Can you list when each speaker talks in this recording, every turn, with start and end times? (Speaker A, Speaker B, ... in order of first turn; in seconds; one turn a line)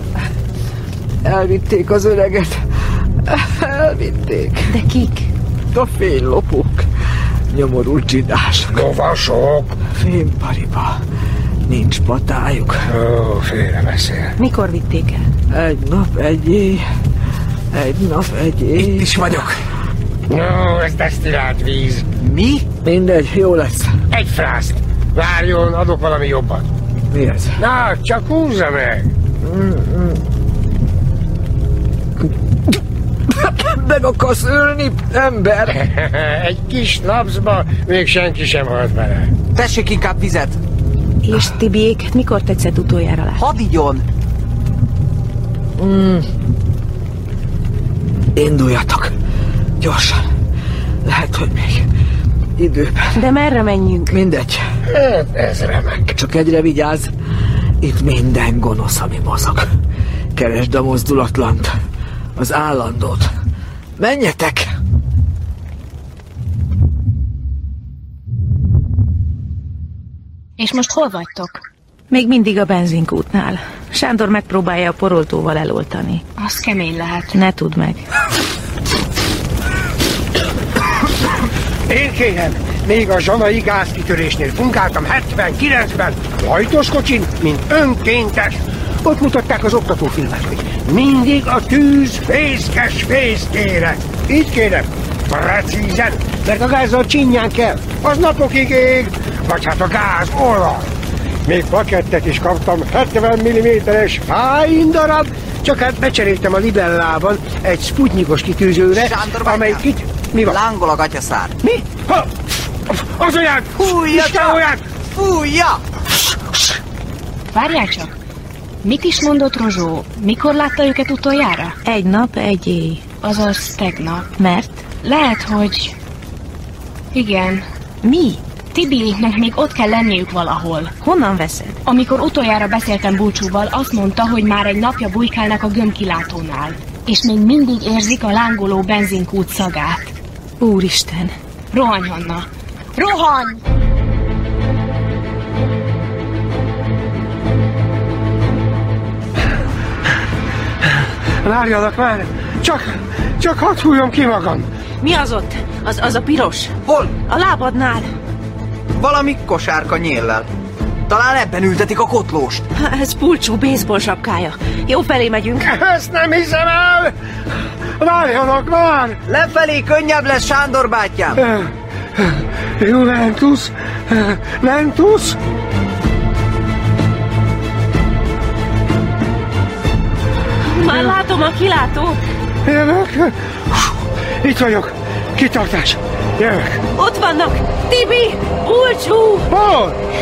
Speaker A: 1.2-2.6
Speaker A: 3.2-4.7
Speaker B: 4.7-5.3
Speaker A: 5.7-6.8
Speaker A: 7.5-8.8
Speaker C: 8.7-9.8
Speaker A: 9.9-11.0
Speaker A: 11.7-12.8
Speaker C: 12.9-14.3
Speaker B: 14.4-15.3
Speaker A: 15.5-16.8
Speaker A: 17.7-19.3
Speaker D: 18.8-19.6
Speaker C: 20.3-22.1
Speaker D: 22.2-22.6
Speaker A: 22.8-23.9
Speaker C: 24.1-26.7
Speaker A: 27.1-27.6
Speaker C: 27.6-29.1
Speaker A: 29.4-30.2
Speaker A: 33.3-35.8
Speaker C: 35.7-39.3
Speaker D: 39.5-40.6
Speaker B: 41.2-43.4
Speaker D: 43.4-44.0
Speaker A: 45.8-46.3
Speaker A: 48.3-49.1
Speaker A: 49.8-50.2
Speaker A: 51.0-51.9
Speaker A: 52.6-53.1
Speaker B: 53.1-54.1
Speaker A: 54.1-54.6
Speaker C: 54.9-56.1
Speaker A: 56.1-57.1
Speaker A: 57.8-59.6
Speaker A: 60.3-61.7
Speaker A: 62.4-63.3
Speaker A: 64.0-64.7
Speaker E: 70.6-71.6
Speaker B: 72.1-76.2
Speaker E: 76.4-77.3
Speaker B: 77.3-78.0
Speaker C: 81.9-100.9
Speaker C: 101.4-110.6
Speaker D: 108.9-109.8
Speaker D: 110.4-111.6
Speaker C: 111.6-114.8
Speaker D: 113.8-115.8
Speaker E: 117.5-118.1
Speaker E: 118.8-121.8
Speaker B: 121.8-123.1
Speaker E: 123.2-124.3
Speaker B: 124.4-124.8
Speaker E: 125.0-125.9
Speaker E: 127.1-127.6
Speaker B: 128.0-128.4
Speaker E: 128.7-130.9
Speaker B: 131.0-131.8
Speaker E: 131.8-140.2
Speaker B: 140.6-141.3
Speaker E: 141.7-143.6
Speaker C: 151.4-154.7
Speaker B: 155.0-158.1
Speaker D: 156.9-157.1
Speaker D: 158.9-160.5
Speaker D: 161.1-162.7
Speaker B: 162.8-165.7
Speaker C: 165.6-167.1
Speaker C: 168.0-169.2
Speaker D: 169.3-171.4
Speaker C: 171.3-175.4
Speaker B: 180.7-182.2
Speaker C: 182.6-186.8
Speaker B: 186.9-189.5
Speaker C: 189.5-190.0